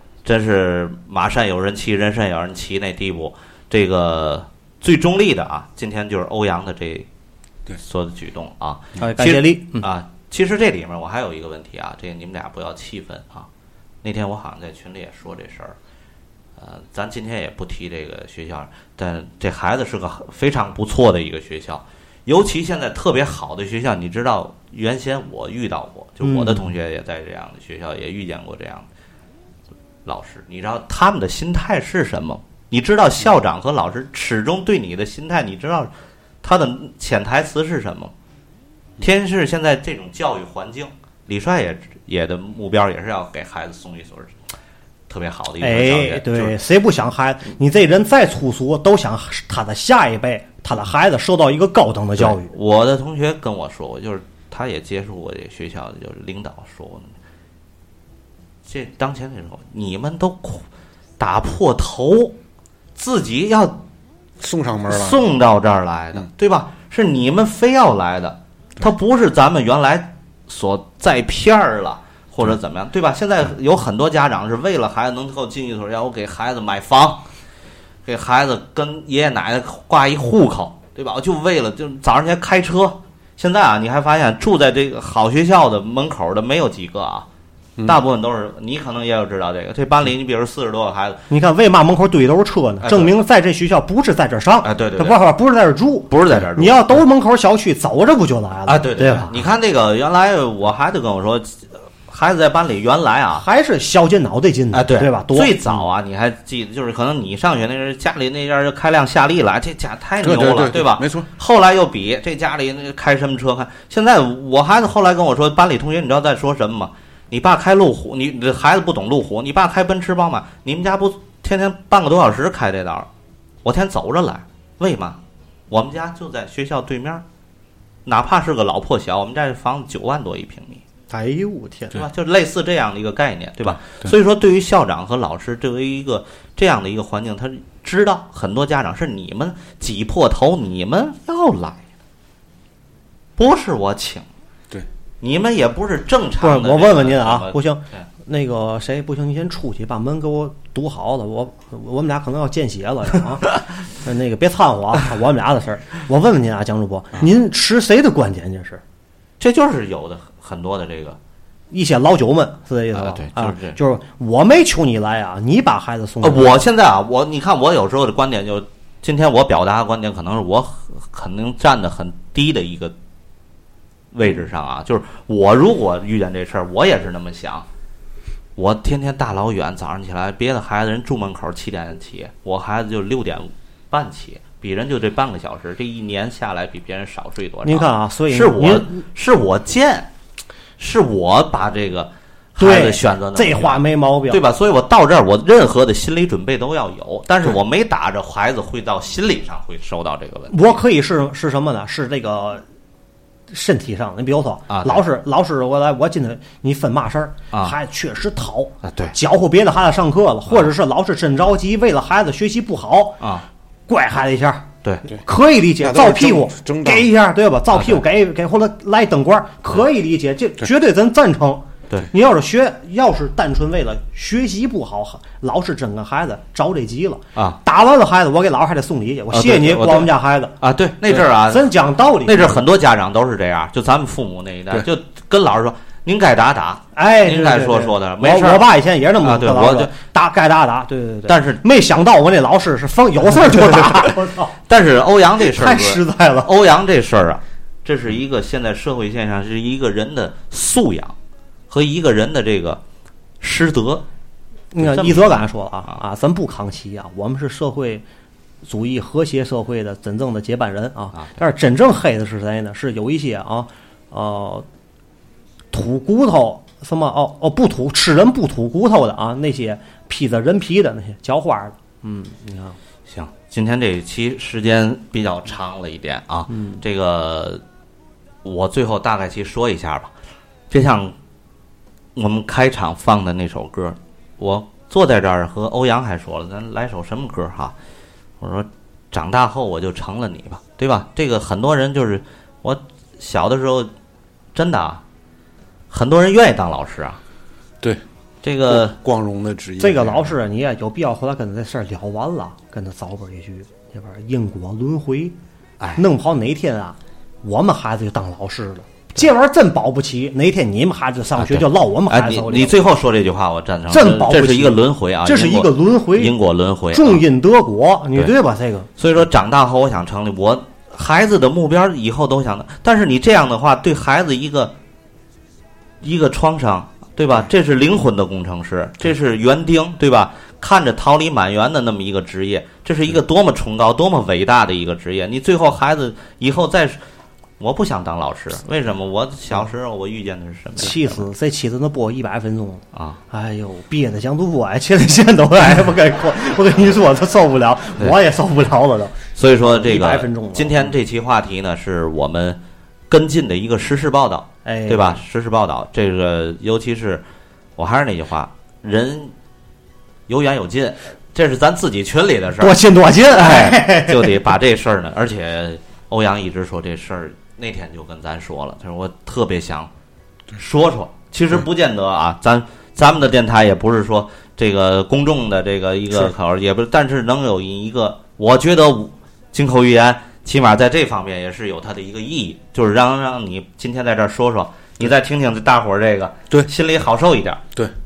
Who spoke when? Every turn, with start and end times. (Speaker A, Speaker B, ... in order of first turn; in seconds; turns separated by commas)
Speaker A: 0.2-7.1, Speaker A: 7.8-13.5, Speaker B: 9.0-9.9, Speaker A: 14.0-15.8, Speaker A: 16.6-28.9, Speaker B: 26.2-26.7, Speaker A: 30.0-35.9, Speaker A: 36.4-38.1, Speaker A: 39.0-44.4, Speaker A: 45.1-46.5, Speaker B: 45.6-52.5, Speaker A: 52.2-57.1, Speaker A: 58.6-60.6, Speaker A: 61.2-62.4, Speaker A: 63.0-63.8, Speaker C: 64.4-65.2, Speaker A: 64.9-77.2, Speaker A: 78.0-87.3, Speaker A: 87.8-91.2, Speaker B: 91.3-99.3, Speaker A: 92.8-93.1, Speaker A: 94.6-95.2, Speaker A: 96.1-97.0, Speaker A: 98.7-103.4, Speaker B: 103.4-105.5, Speaker A: 104.7-123.1, Speaker C: 110.2-111.3, Speaker A: 123.6-127.2, Speaker A: 128.1-130.8, Speaker B: 131.1-132.0, Speaker A: 131.9-141.8, Speaker A: 143.4-144.2, Speaker A: 145.2-148.1, Speaker B: 146.4-158.8, Speaker A: 159.4-161.2, Speaker B: 161.7-166.5, Speaker A: 162.9-163.8, Speaker A: 166.2-172.9, Speaker A: 174.1-177.7, Speaker A: 178.6-190.1, Speaker B: 187.6-189.0, Speaker A: 190.8-200.8, Speaker B: 192.6-194.4, Speaker B: 200.5-202.6, Speaker B: 203.5-213.2, Speaker A: 204.7-205.0, Speaker A: 208.8-209.1, Speaker A: 213.2-213.4, Speaker B: 213.9-230.5, Speaker C: 215.8-217.1, Speaker A: 217.7-218.0, Speaker A: 229.3-231.7, Speaker B: 231.4-232.6, Speaker A: 232.2-238.7, Speaker B: 236.9-244.5, Speaker A: 239.2-239.9, Speaker A: 241.3-241.6, Speaker A: 244.7-251.1, Speaker B: 245.4-246.5, Speaker A: 251.7-252.8, Speaker A: 253.4-254.1, Speaker B: 254.7-258.0, Speaker A: 254.8-255.4, Speaker B: 258.6-264.6, Speaker B: 265.7-272.8, Speaker A: 273.1-277.6, Speaker B: 276.5-276.8, Speaker A: 278.4-280.1, Speaker A: 280.7-281.1, Speaker A: 282.1-287.7, Speaker A: 288.4-293.9, Speaker A: 294.5-295.0, Speaker A: 295.9-297.2, Speaker A: 298.4-299.0, Speaker C: 298.7-300.3, Speaker B: 299.8-305.4, Speaker B: 305.9-312.8, Speaker A: 311.4-317.2, Speaker B: 313.9-316.3, Speaker B: 316.9-318.9, Speaker A: 319.0-324.7, Speaker A: 326.0-337.0, Speaker A: 337.6-341.2, Speaker B: 340.8-350.9, Speaker A: 342.9-343.2, Speaker A: 349.4-352.6, Speaker A: 353.1-357.2, Speaker B: 354.6-355.2, Speaker A: 357.8-359.3, Speaker A: 360.3-362.8, Speaker B: 362.6-364.3, Speaker A: 363.3-369.9, Speaker A: 370.5-387.6